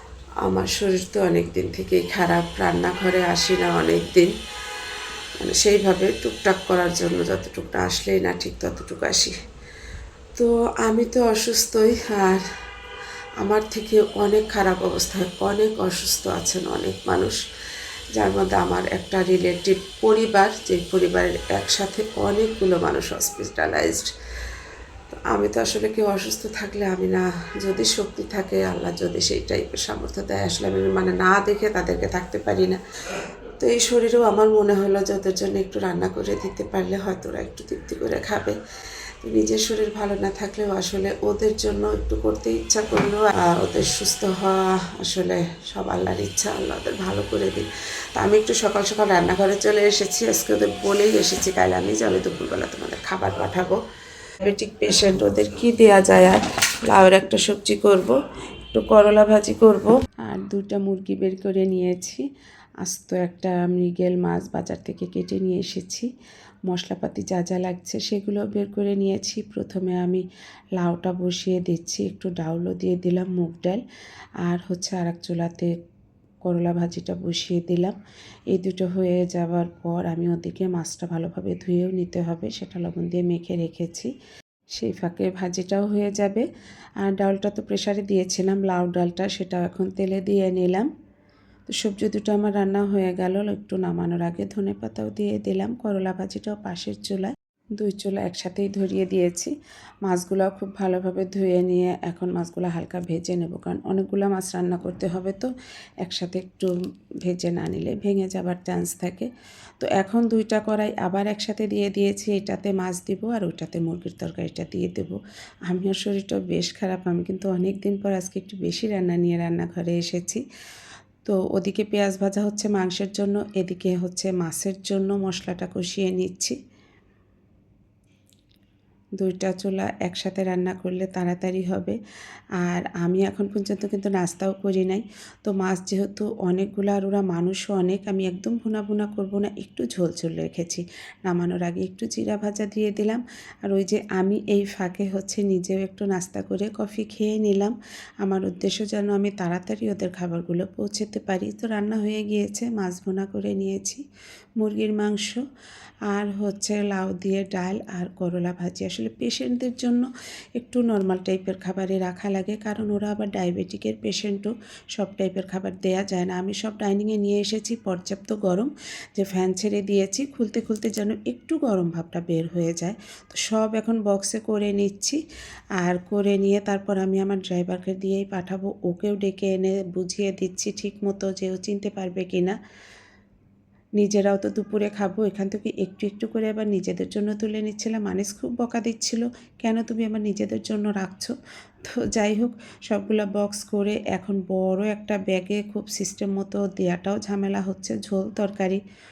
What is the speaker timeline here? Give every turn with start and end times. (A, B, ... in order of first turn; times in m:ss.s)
0:00.4-0:04.4 A
0:05.4-0:09.3 A
0:10.4-0:12.4 A
0:13.4-0:17.4 A
0:18.2-0:24.1 A
0:25.1-0:32.8 A
0:33.6-0:38.6 A
0:39.2-0:53.8 A
0:54.4-0:58.2 A
0:58.7-1:02.2 A
1:02.8-1:06.1 A
1:06.7-1:10.2 A
1:10.8-1:13.8 A
1:14.4-1:15.7 A
1:16.4-1:18.0 A
1:18.5-1:24.1 A
1:24.7-1:26.4 A
1:27.0-1:30.9 A
1:31.7-1:39.5 A
1:40.0-1:45.5 A
1:46.0-1:46.7 A
1:47.2-2:00.4 A
2:01.3-2:06.6 A
2:09.2-2:12.0 A
2:12.6-2:34.0 A
2:34.6-2:35.4 A
2:36.1-2:55.2 A
2:55.8-3:02.6 A
3:04.0-3:18.8 A